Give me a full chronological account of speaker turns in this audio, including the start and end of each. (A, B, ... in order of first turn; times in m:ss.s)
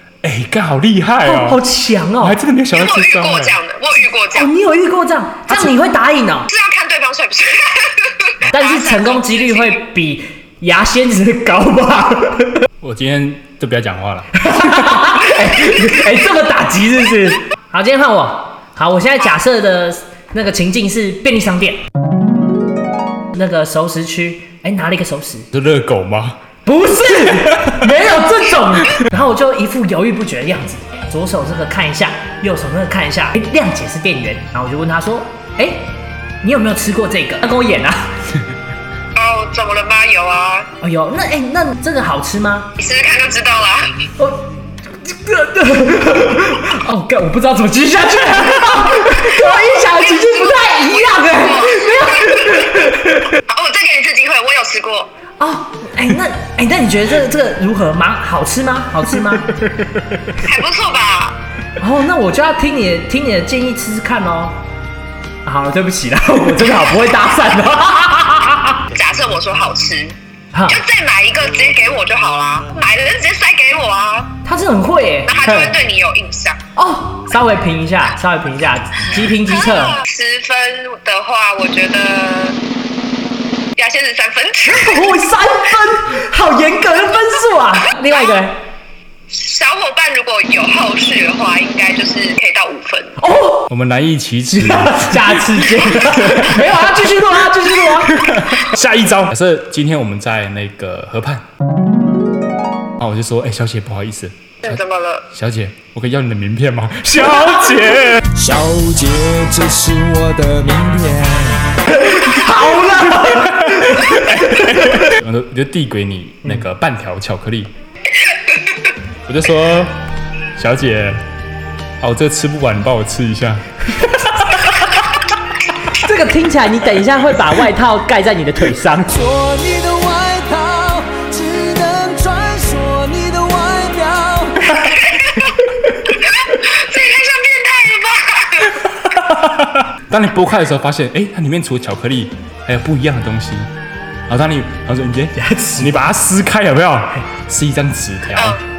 0:00.2-0:01.6 A
0:01.2-0:02.4 B
0:02.2-0:03.6 A
0:02.7-0:04.5 C
0:04.3-0:06.5 B
0:05.5-0:05.7 A
0:06.5-0:09.8 C
0:08.4-0:12.7 B
0:12.8-0:14.7 A
0:14.4-0:21.8 B
0:23.3-0:25.5 B
0:25.5-0:26.4 A
0:26.6-0:38.2 B
0:39.2-0:40.7 C
0:40.8-0:42.7 B
0:42.8-0:44.1 C
0:44.2-0:53.4 B
0:49.2-0:55.1 C
0:55.4-0:59.5 B
1:00.4-1:01.4 C
1:01.8-1:04.6 B
1:05.4-1:08.8 B
1:08.9-1:10.2 C
1:10.5-1:10.8 B
1:10.7-1:14.3 C
1:14.4-1:15.8 B
1:15.3-1:16.6 C
1:16.8-1:20.0 B
1:19.4-1:22.6 C
1:23.8-1:25.1 C
1:24.6-1:28.6 B
1:29.3-1:33.2 C
1:33.2-1:33.7 B
1:33.7-1:36.9 A
1:34.5-1:38.4 B
1:38.1-1:41.4 A
1:43.0-1:44.8 A
1:44.6-1:45.3 C
1:45.3-1:48.2 A
1:48.3-1:51.9 D
1:52.0-1:54.2 B
1:53.2-1:57.7 A
1:59.3-2:00.0 A
2:00.6-2:01.2 A
2:02.0-2:03.7 A
2:05.9-2:14.3 B
2:14.8-2:15.4 C
2:16.1-2:18.9 C
2:19.1-2:23.7 A
2:24.3-2:28.6 A
2:25.4-2:25.9 B
2:28.4-2:28.6 C